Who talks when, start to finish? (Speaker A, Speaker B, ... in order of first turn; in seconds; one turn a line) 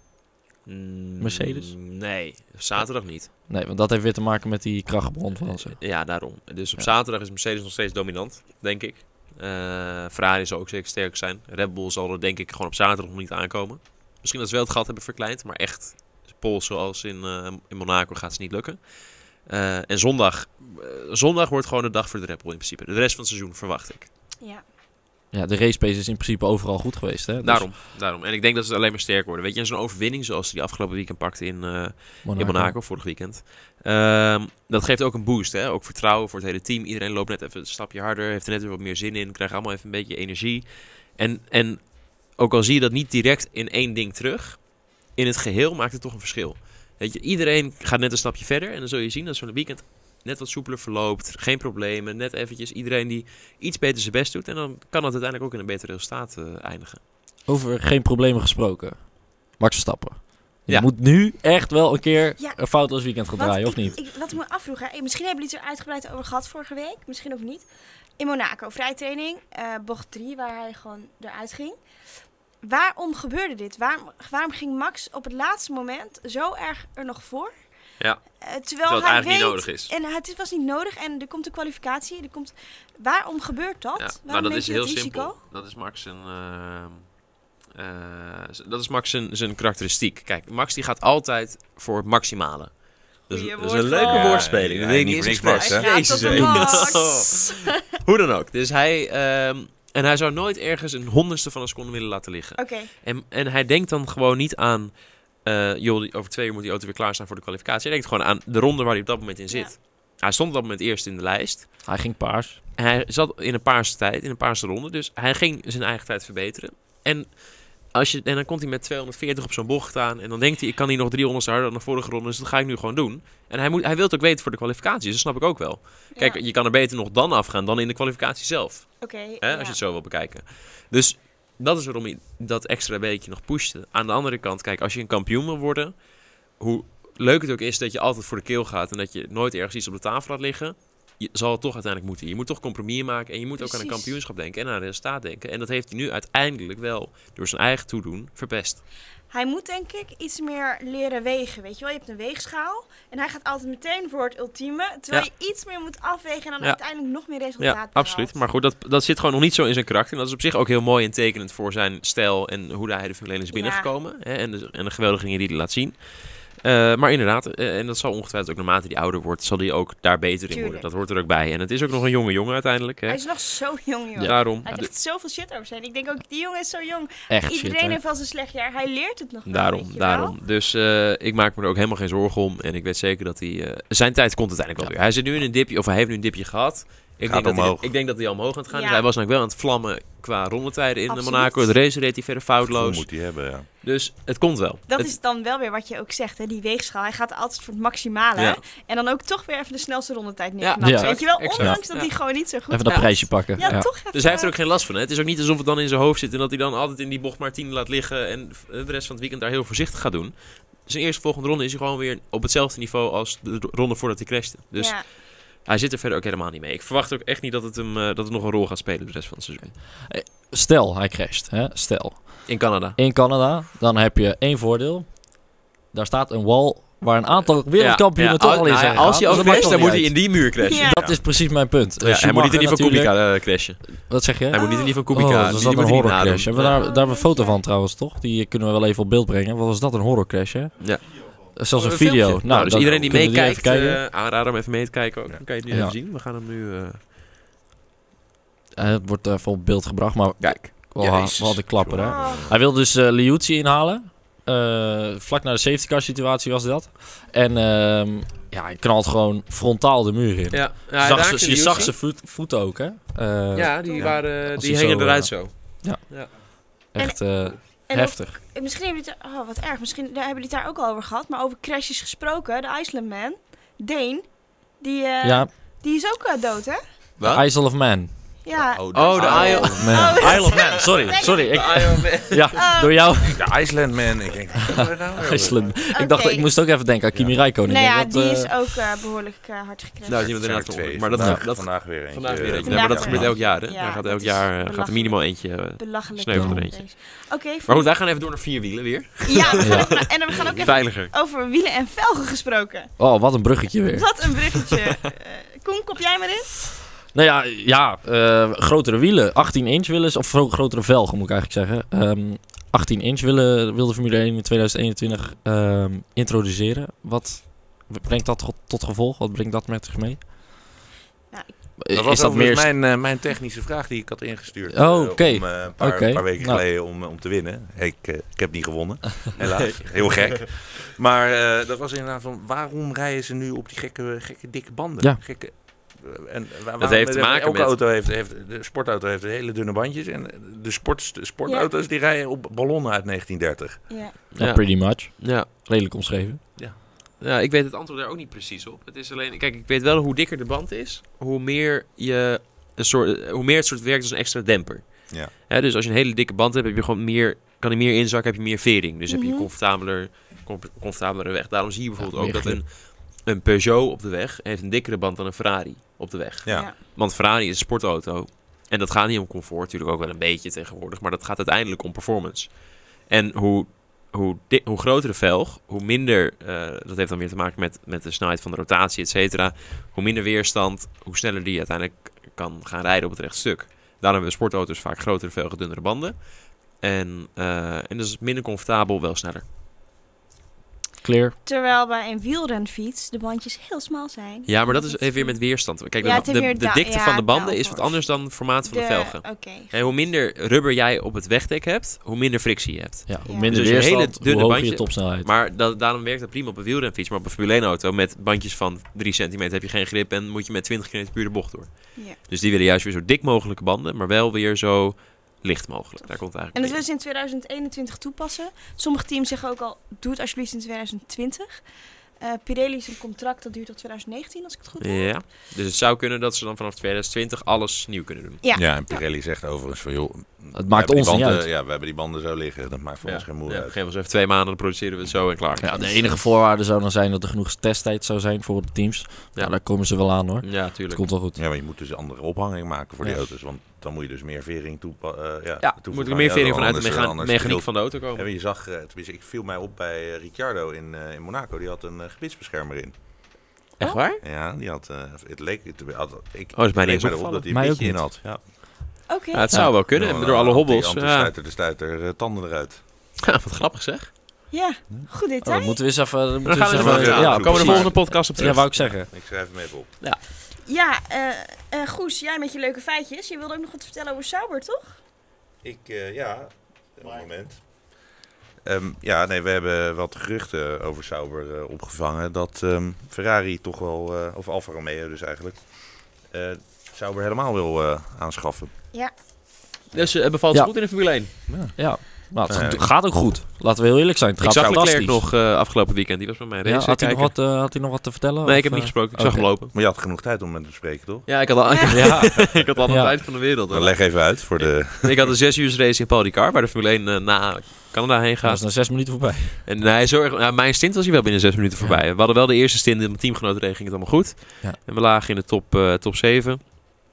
Speaker A: 0.7-3.3
Speaker B: 1.2-1.7
Speaker B: 3.5-5.8
Speaker A: 5.4-18.8
Speaker A: 19.4-24.1
Speaker B: 25.3-27.7
Speaker A: 27.4-57.0
Speaker B: 32.2-32.8
Speaker B: 57.5-64.0
Speaker C: 63.4-67.7
Speaker C: 68.2-71.8
Speaker C: 72.6-77.6
Speaker C: 78.4-85.4
Speaker A: 78.8-79.9
Speaker A: 84.0-87.1
Speaker A: 87.7-92.7
Speaker A: 93.3-111.8
Speaker C: 93.3-94.5
Speaker D: 94.0-96.9
Speaker C: 95.3-97.8
Speaker C: 102.6-102.9
Speaker B: 111.8-112.6
Speaker A: 112.8-117.4
Speaker A: 117.9-135.9
Speaker C: 129.0-129.8
Speaker A: 136.6-148.8
Speaker C: 143.6-144.1
Speaker C: 149.3-158.3
Speaker A: 157.6-166.0
Speaker C: 163.5-163.9
Speaker A: 166.6-173.2
Speaker C: 170.5-170.9
Speaker C: 173.1-180.3
Speaker A: 174.2-174.9
Speaker B: 177.3-178.0
Speaker A: 179.4-193.1
Speaker D: 187.2-187.9
Speaker C: 188.7-189.1
Speaker C: 191.1-191.7
Speaker D: 192.7-193.7
Speaker A: 193.8-195.1
Speaker C: 194.9-204.5
Speaker A: 198.3-198.6
Speaker A: 200.6-202.1
Speaker B: 200.8-201.8
Speaker B: 202.7-203.9
Speaker A: 202.9-219.7
Speaker C: 214.8-215.0
Speaker B: 220.0-225.3
Speaker A: 222.5-223.0
Speaker B: 225.9-233.2
Speaker A: 227.8-231.0
Speaker C: 230.6-231.0
Speaker D: 230.9-231.2
Speaker A: 232.0-236.8
Speaker B: 234.1-244.0
Speaker C: 234.5-235.0
Speaker C: 236.6-237.6
Speaker A: 240.8-247.0
Speaker D: 242.8-243.4
Speaker B: 245.7-245.9
Speaker B: 248.8-266.0
Speaker A: 250.4-251.6
Speaker D: 251.8-252.6
Speaker C: 252.0-252.5
Speaker A: 260.5-261.9
Speaker D: 261.6-261.9
Speaker A: 263.5-266.3
Speaker C: 263.8-264.2
Speaker B: 266.8-268.4
Speaker C: 267.0-276.8
Speaker B: 275.2-275.5
Speaker A: 277.2-277.4
Speaker B: 277.3-278.1
Speaker C: 278.4-282.0
Speaker D: 278.5-281.0
Speaker A: 278.9-280.8
Speaker B: 279.8-283.5
Speaker A: 281.5-282.6
Speaker C: 282.5-283.2
Speaker D: 283.2-285.8
Speaker B: 284.7-288.5
Speaker C: 285.9-286.5
Speaker D: 287.1-287.4
Speaker C: 287.6-290.3
Speaker A: 290.1-297.0
Speaker D: 290.1-293.4
Speaker C: 292.6-297.9
Speaker B: 296.3-296.6
Speaker A: 297.6-301.1
Speaker C: 299.2-302.9
Speaker B: 299.6-299.9
Speaker B: 303.0-304.1
Speaker C: 303.9-306.5
Speaker B: 307.1-320.3
Speaker B: 321.8-322.7
Speaker D: 321.9-343.8
Speaker B: 324.7-326.6
Speaker A: 329.4-330.4
Speaker A: 336.8-337.8
Speaker C: 343.9-344.1
Speaker A: 344.3-345.5
Speaker B: 344.4-346.4
Speaker A: 347.2-389.4
Speaker C: 359.1-359.5
Speaker B: 362.0-362.6
Speaker D: 366.4-366.7
Speaker C: 366.5-366.8
Speaker B: 391.0-391.3
Speaker C: 391.4-395.4
Speaker A: 394.4-416.8
Speaker C: 396.0-398.1
Speaker C: 398.6-399.9
Speaker B: 403.1-405.3
Speaker C: 403.2-403.5
Speaker C: 416.5-421.6
Speaker C: 422.2-425.1
Speaker A: 424.8-428.4
Speaker C: 428.4-429.0
Speaker D: 428.5-433.7
Speaker B: 430.5-431.4
Speaker A: 433.0-436.0
Speaker B: 435.6-441.4
Speaker A: 440.4-441.0
Speaker D: 441.3-452.9
Speaker A: 445.6-448.2
Speaker A: 453.8-454.2
Speaker D: 454.2-458.4
Speaker A: 456.5-457.7
Speaker B: 457.5-458.0
Speaker C: 459.1-459.5
Speaker A: 459.3-461.3
Speaker D: 459.8-462.8
Speaker A: 463.2-464.1
Speaker C: 464.5-465.8
Speaker B: 465.4-469.1
Speaker A: 466.4-468.6
Speaker D: 466.7-469.9
Speaker C: 470.6-474.9
Speaker D: 475.6-477.7
Speaker D: 478.6-488.7
Speaker A: 489.9-491.3
Speaker D: 491.5-491.7
Speaker B: 491.5-495.2
Speaker D: 492.4-492.9
Speaker A: 494.4-497.4
Speaker B: 496.6-499.5
Speaker A: 498.4-499.7
Speaker D: 499.7-501.4
Speaker A: 501.3-508.8
Speaker B: 501.9-503.1
Speaker D: 502.4-502.6
Speaker D: 503.7-505.3
Speaker B: 508.4-509.6
Speaker A: 509.6-517.0